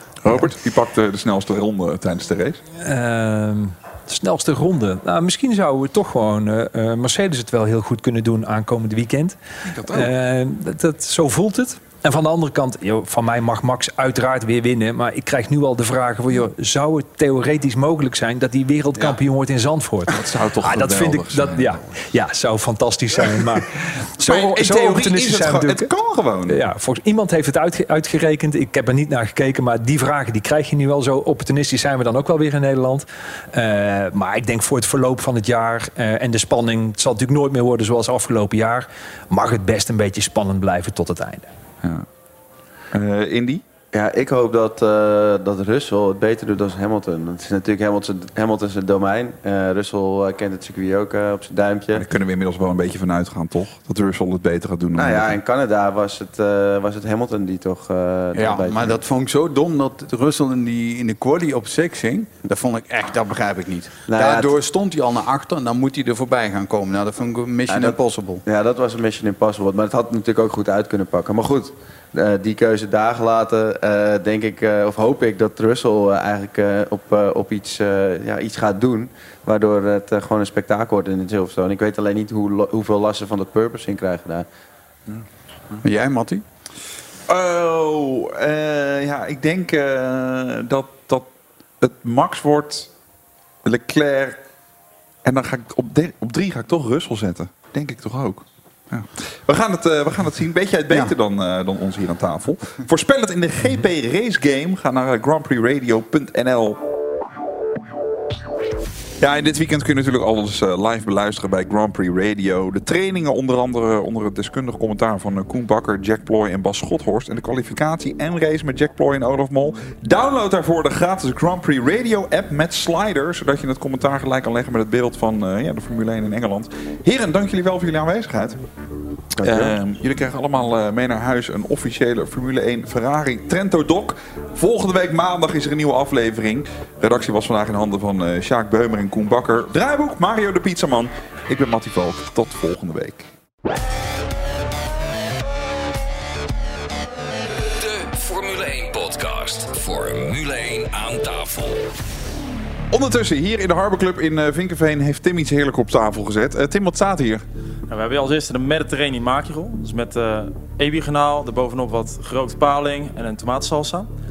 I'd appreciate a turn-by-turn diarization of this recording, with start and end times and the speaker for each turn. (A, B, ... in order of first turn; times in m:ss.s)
0:00.2-0:02.6 A
0:02.8-0:25.9 B
0:09.7-0:10.1 A
0:20.1-0:22.0 A
0:24.2-0:26.6 A
0:26.5-0:41.5 B
0:42.9-0:43.6 A
0:43.9-0:52.0 C
0:51.9-0:55.4 A
0:55.0-0:59.0 C
0:58.3-1:08.4 D
1:04.1-1:04.6 C
1:07.7-1:24.5 C
1:25.1-1:25.8 A
1:25.8-1:26.4 D
1:27.3-1:31.3 A
1:31.8-1:32.9 A
1:33.6-1:34.4 A
1:35.2-1:46.8 A
1:49.2-2:08.6 A
2:09.4-2:09.8 C
2:09.4-2:23.3 A
2:27.5-2:31.8 E
2:32.9-2:37.4 A
2:37.9-2:44.1 F